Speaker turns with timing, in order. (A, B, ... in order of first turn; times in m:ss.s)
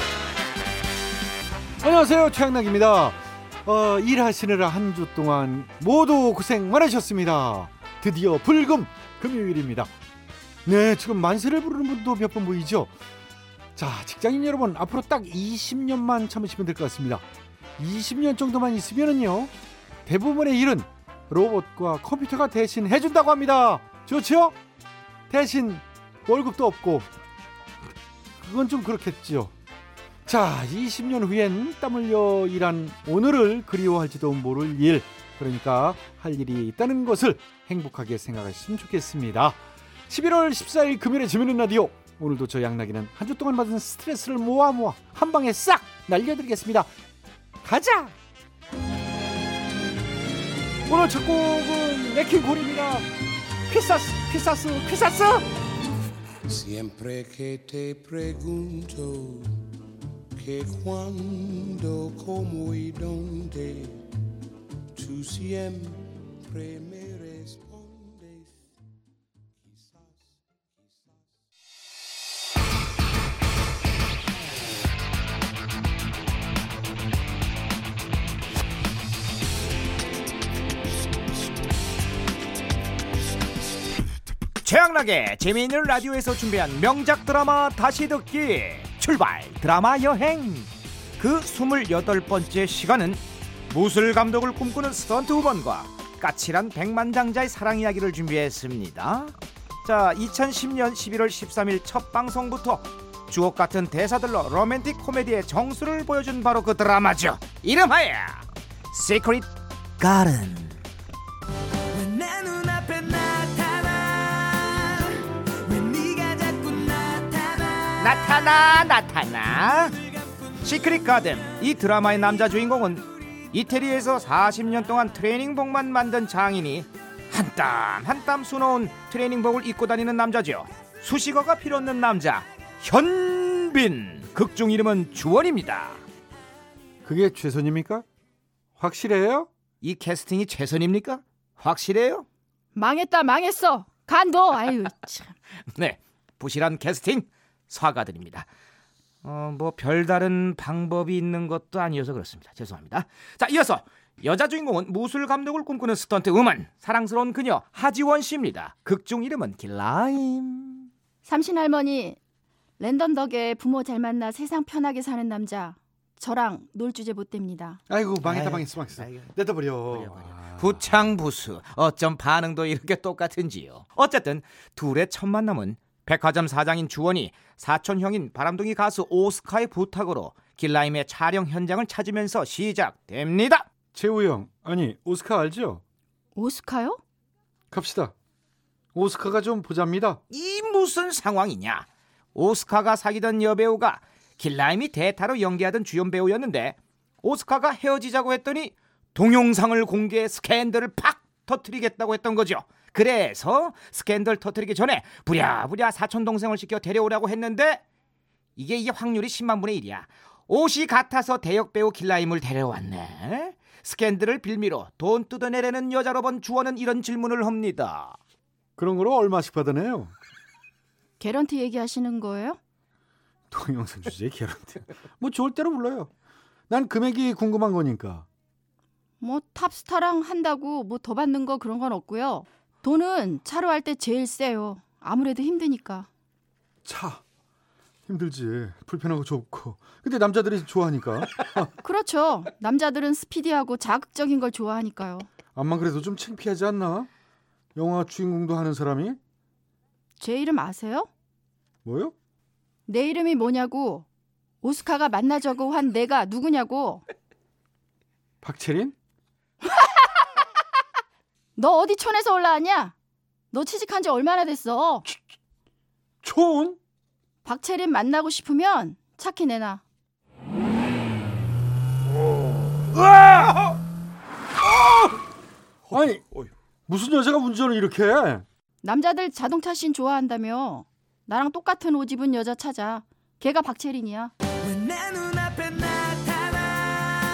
0:01.8-0:09.9 A
0:10.6-0:12.9 A
0:13.7-0:17.2 A
0:17.8-0:19.5 A
0:20.0-0:24.6 A
0:25.3-0:27.1 A
0:28.4-0:29.5 A
0:30.2-0:46.9 A
0:47.6-0:48.1 A
0:50.9-0:53.1 A
0:53.7-0:55.4 A
0:56.5-0:59.6 B
1:00.3-1:04.0 B
1:04.9-1:08.5 B
1:24.6-1:50.8 C
1:52.0-1:54.9 C
1:55.7-2:00.0 C
2:00.6-2:16.0 C
2:17.0-2:18.0 A
2:18.8-2:19.5 A
2:19.8-2:22.2 C
2:22.7-2:25.3 D
2:25.7-2:28.5 C
2:29.2-2:40.9 C
2:41.2-2:42.2 D
2:42.8-2:47.8 D
2:47.9-2:50.8 A
2:48.2-3:03.6 C
3:03.9-3:05.8 A
3:06.3-3:07.0 D
3:07.7-3:08.1 A
3:08.9-3:10.2 A
3:10.3-3:27.8 C
3:28.6-3:38.2 C
3:38.8-3:40.1 A
3:41.2-3:42.6 D
3:43.5-3:46.1 A
3:46.7-3:48.3 A
3:49.2-3:56.1 D
3:56.8-3:57.2 A
3:58.1-4:01.7 A
4:01.8-4:05.3 D
4:05.5-4:07.1 A
4:07.8-4:09.2 A
4:10.2-4:11.1 D
4:11.8-4:12.1 A
4:12.9-4:14.0 D
4:14.6-4:17.0 D
4:18.4-4:18.9 A
4:19.6-4:20.4 D
4:21.6-4:22.9 D
4:23.5-4:25.0 D
4:26.2-4:26.8 A
4:27.4-4:29.8 D
4:32.9-4:33.7 A
4:34.6-4:35.2 A
4:35.9-4:38.4 A
4:38.8-4:44.3 D
4:45.0-4:46.2 C